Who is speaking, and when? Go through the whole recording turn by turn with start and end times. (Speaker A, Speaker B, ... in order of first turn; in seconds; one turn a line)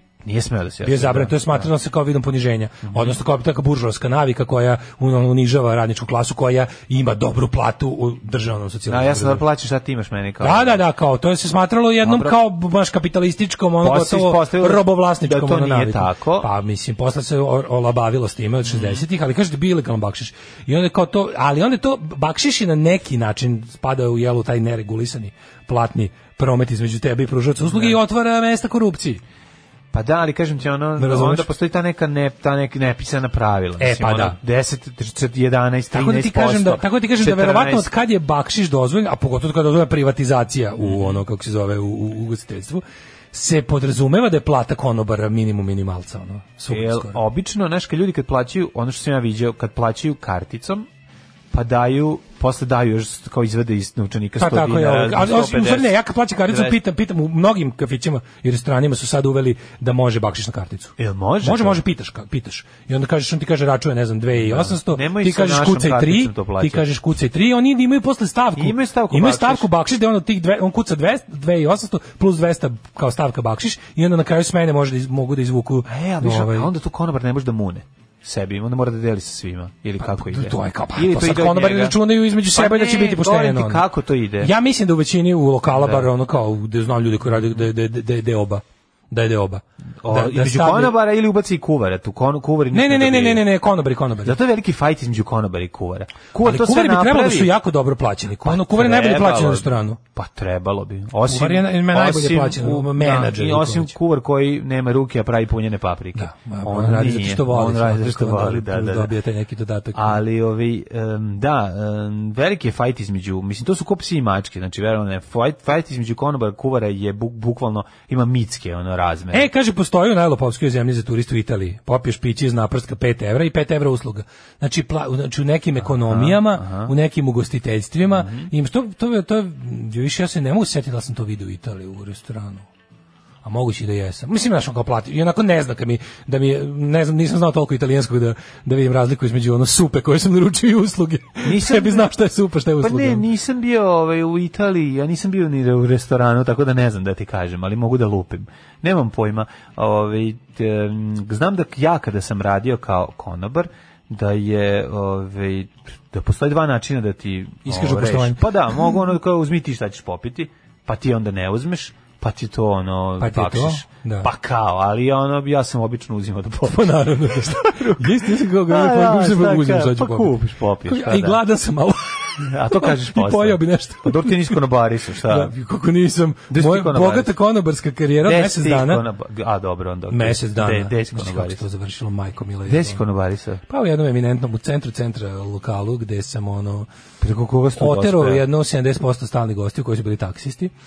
Speaker A: 0.2-1.7
Speaker B: 0.8-9.4
Speaker A: 2.9-3.2
Speaker A: 8.9-10.8
Speaker B: 10.4-29.2
Speaker A: 12.0-12.4
Speaker A: 13.8-16.5
Speaker A: 18.6-19.0
Speaker A: 27.6-28.0
Speaker A: 29.9-37.9
Speaker B: 31.0-31.5
Speaker B: 33.8-34.4
Speaker B: 35.9-47.2
Speaker A: 40.8-41.2
Speaker A: 46.7-50.9
Speaker A: 51.5-56.8
Speaker B: 54.4-76.7
Speaker A: 61.0-61.8
Speaker A: 64.3-66.9
Speaker A: 68.5-69.7
Speaker A: 75.8-84.5
Speaker B: 80.0-83.8
Speaker B: 84.4-91.0
Speaker A: 85.7-86.1
Speaker A: 87.3-87.6
Speaker A: 90.0-93.4
Speaker B: 92.7-94.4
Speaker A: 94.2-97.5
Speaker B: 96.4-100.0
Speaker A: 98.4-109.1
Speaker B: 101.2-103.9
Speaker B: 106.2-110.2
Speaker A: 109.9-119.5
Speaker B: 119.3-132.7
Speaker A: 125.8-126.9
Speaker A: 128.0-128.5
Speaker B: 133.4-143.2
Speaker A: 141.4-142.1
Speaker A: 142.8-171.4
Speaker B: 157.7-158.9
Speaker B: 163.2-164.3
Speaker B: 166.7-170.3
Speaker B: 170.8-174.6
Speaker A: 172.4-175.5
Speaker B: 175.3-179.0
Speaker A: 176.5-177.3
Speaker A: 178.2-181.6
Speaker B: 180.1-183.0
Speaker A: 182.7-183.6
Speaker B: 183.7-186.9
Speaker A: 187.2-188.4
Speaker B: 187.8-190.7